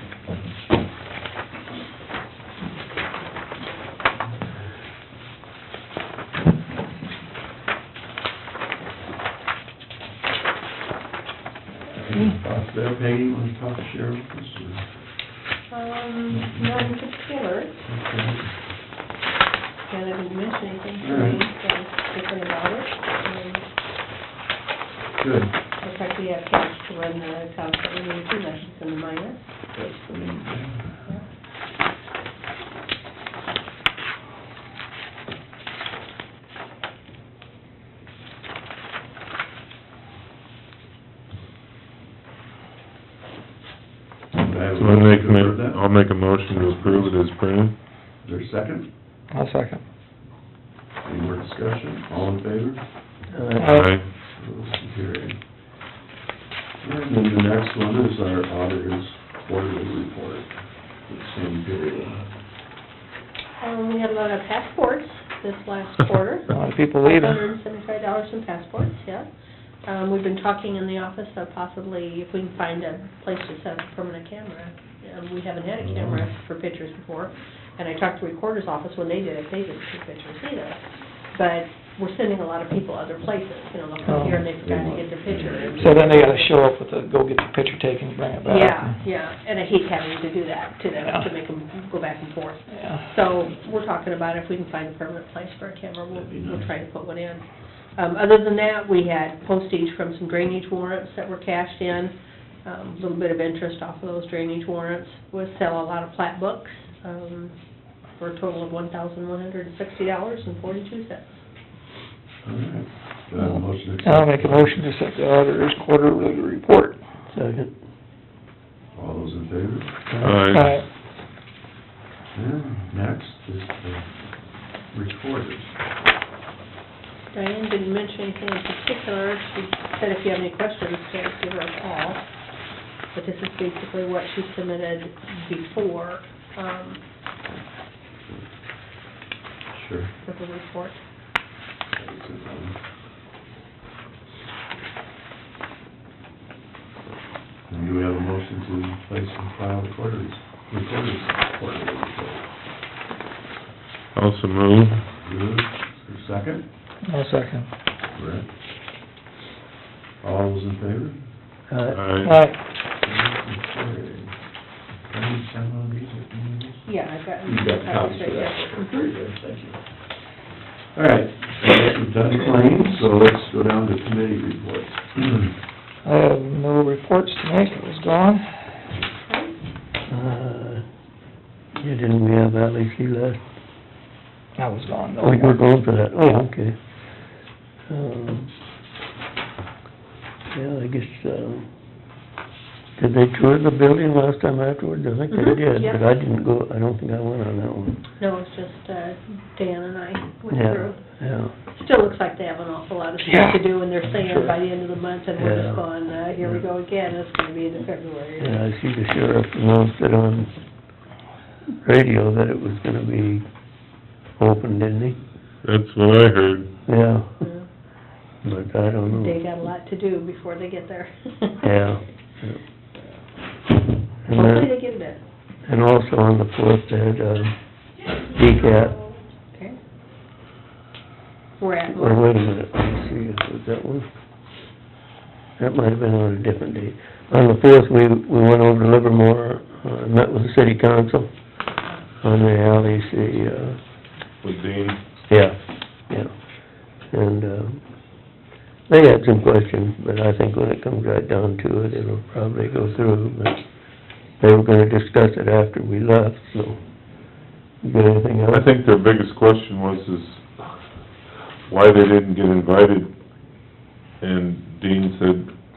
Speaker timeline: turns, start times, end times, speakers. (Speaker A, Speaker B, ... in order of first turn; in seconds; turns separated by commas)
Speaker A: 11.9-14.8, Speaker B: 15.7-17.8, Speaker A: 16.3-16.7, Speaker A: 17.8-18.5, Speaker B: 19.9-23.6, Speaker A: 21.0-21.4, Speaker A: 25.2-25.5, Speaker B: 25.8-29.5, Speaker A: 29.7-30.8, Speaker A: 44.4-45.8, Speaker C: 44.8-47.7, Speaker A: 46.5-47.2, Speaker A: 48.2-48.9, Speaker D: 49.3-49.8, Speaker A: 51.0-52.8, Speaker E: 53.3-53.8, Speaker C: 53.6-54.0, Speaker A: 54.3-55.4, Speaker A: 56.8-60.5, Speaker A: 61.0-62.2, Speaker B: 63.6-69.3, Speaker D: 66.5-67.4, Speaker B: 69.8-80.8, Speaker A: 75.8-76.2, Speaker B: 81.3-86.5, Speaker D: 84.0-84.4, Speaker A: 84.1-86.3, Speaker D: 85.8-89.0, Speaker B: 88.4-97.4, Speaker D: 92.8-93.0, Speaker A: 96.1-96.7, Speaker B: 98.0-102.1, Speaker B: 102.6-107.5, Speaker B: 108.2-111.4, Speaker A: 112.4-114.8, Speaker D: 114.0-117.0, Speaker E: 117.3-117.7, Speaker A: 118.9-119.9, Speaker E: 120.1-120.5, Speaker C: 120.2-120.8, Speaker D: 120.5-120.8, Speaker A: 122.3-124.1, Speaker A: 124.9-125.7, Speaker B: 127.3-132.2, Speaker B: 133.1-137.0, Speaker A: 139.7-140.1, Speaker B: 140.2-141.0, Speaker A: 141.9-142.8, Speaker A: 147.7-152.4, Speaker C: 154.1-155.1, Speaker A: 155.2-156.6, Speaker D: 157.1-157.7, Speaker A: 158.1-158.5, Speaker A: 160.2-161.2, Speaker E: 161.7-162.0, Speaker C: 161.9-162.4, Speaker D: 162.2-162.6, Speaker A: 163.0-164.3, Speaker A: 165.1-166.9, Speaker B: 166.9-169.1, Speaker A: 167.4-169.8, Speaker A: 170.9-175.5, Speaker D: 176.0-178.5, Speaker B: 179.3-179.5, Speaker E: 180.1-180.8, Speaker E: 181.8-183.4, Speaker D: 184.6-185.6, Speaker E: 185.2-186.8, Speaker E: 187.9-188.5, Speaker E: 190.5-191.7, Speaker E: 193.0-198.0, Speaker B: 195.3-196.0, Speaker B: 198.2-201.0, Speaker E: 200.5-201.5, Speaker B: 201.7-208.6, Speaker D: 203.2-204.5, Speaker E: 205.4-205.9, Speaker E: 208.4-210.5, Speaker E: 211.8-213.4, Speaker E: 214.4-215.2, Speaker C: 215.6-216.7, Speaker E: 216.9-217.3, Speaker B: 217.4-217.7, Speaker E: 218.4-219.4, Speaker B: 219.1-221.8, Speaker E: 221.6-222.6, Speaker E: 224.2-224.8, Speaker B: 224.3-225.2, Speaker E: 225.7-227.6, Speaker E: 228.2-229.0, Speaker B: 231.6-232.3, Speaker E: 231.9-234.1, Speaker E: 235.6-241.3, Speaker E: 242.2-243.8, Speaker C: 244.4-245.0, Speaker E: 245.3-245.6, Speaker E: 246.1-246.3, Speaker E: 247.1-247.8, Speaker E: 248.9-253.6, Speaker E: 254.4-256.8, Speaker E: 257.8-258.7, Speaker C: 258.5-260.9, Speaker C: 261.7-263.1, Speaker C: 264.2-265.5